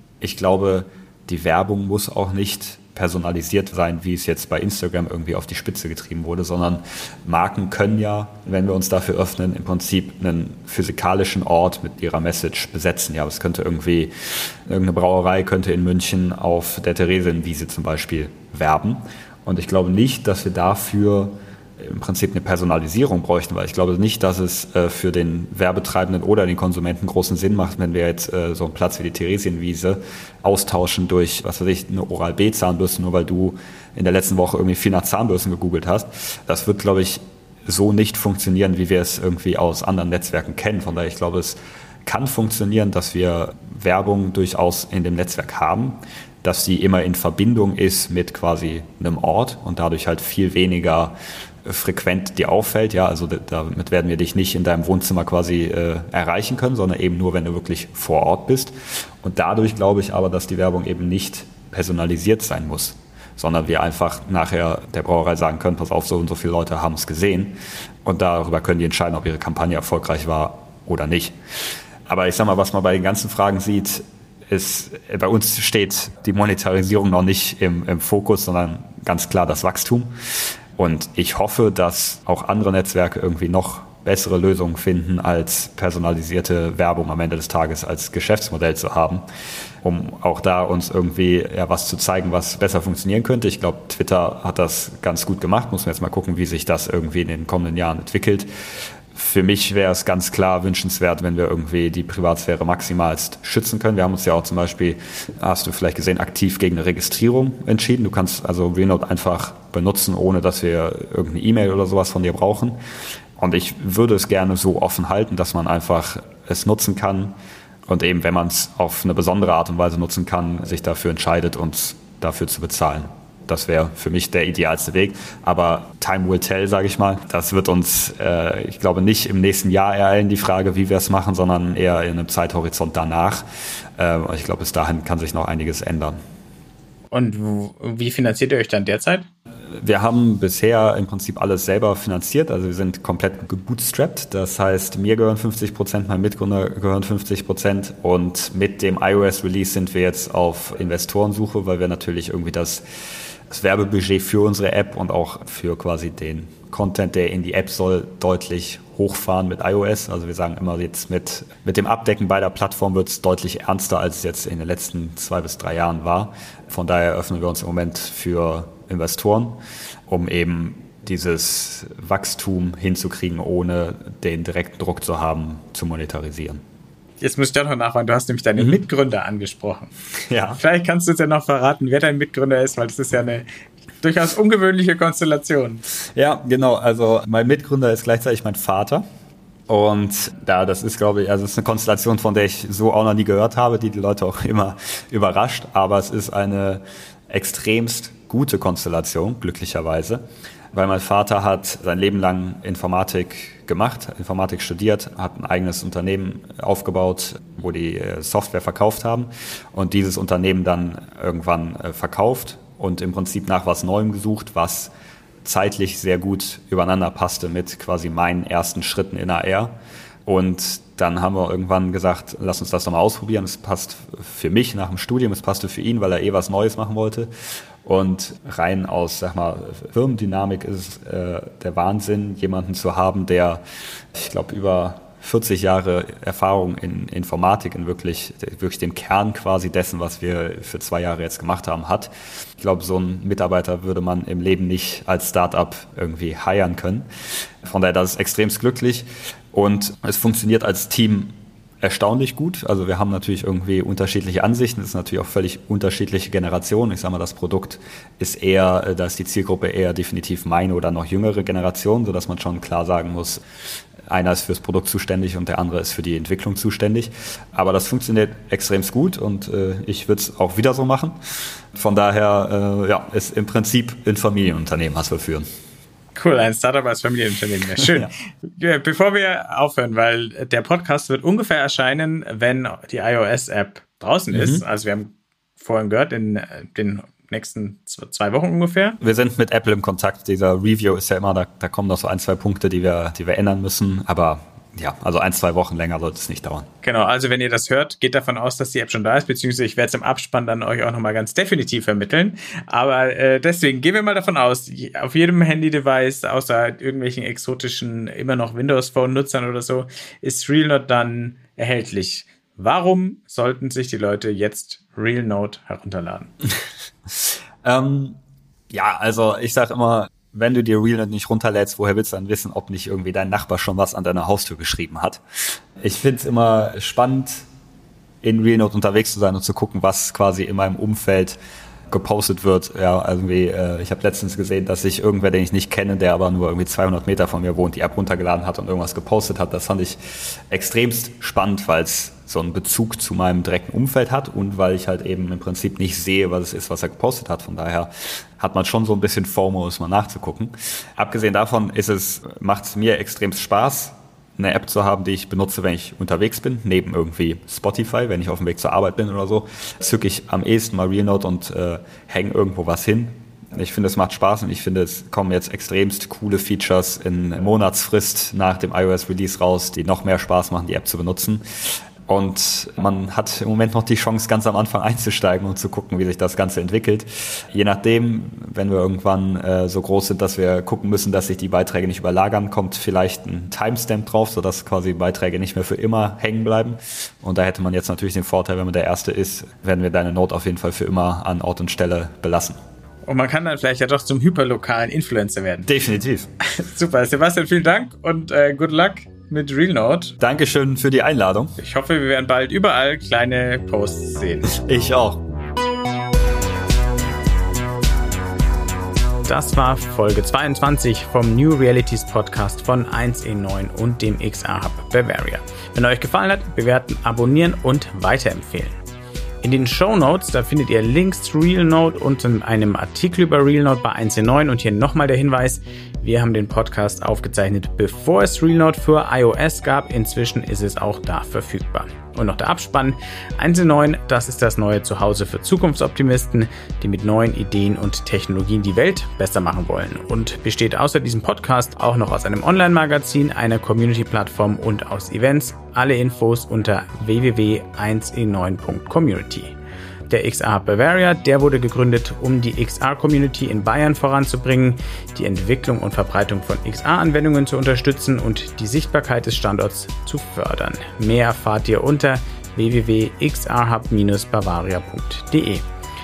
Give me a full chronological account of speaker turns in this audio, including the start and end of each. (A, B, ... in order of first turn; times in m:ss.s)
0:00.2-1:11.4 A
1:12.1-1:20.1 A
1:20.8-1:29.2 A
1:29.8-1:38.5 A
1:39.1-1:52.8 A
1:53.4-1:57.3 A
1:57.9-2:13.4 A
2:14.0-2:16.2 A
2:17.1-2:19.2 B
2:19.7-2:32.8 A
2:33.5-2:56.6 A
2:57.2-2:59.9 B
3:00.3-3:00.6 A
3:00.5-3:03.5 B
3:04.0-3:05.8 B
3:06.1-3:09.0 A
3:09.7-3:20.2 A
3:20.7-3:34.9 A
3:35.4-3:39.7 A
3:40.2-3:47.3 A
3:47.8-3:53.6 A
3:54.1-4:07.0 A
4:07.6-4:23.4 A
4:24.0-4:31.2 A
4:31.7-4:35.4 A
4:36.2-4:49.0 B
4:37.8-4:38.1 A
4:44.3-4:44.6 A
4:49.0-4:56.7 A
4:56.8-5:16.3 B
5:17.1-5:18.2 A
5:18.7-5:25.2 A
5:25.8-5:27.4 A
5:28.2-5:31.4 A
5:31.9-6:32.6 A
6:33.0-6:35.7 B
6:35.6-6:36.3 A
6:36.4-6:40.2 B
6:40.2-6:41.5 A
6:41.6-6:44.5 B
6:44.4-6:45.2 A
6:49.2-6:58.8 B
6:59.4-7:29.5 B
7:30.1-7:45.6 B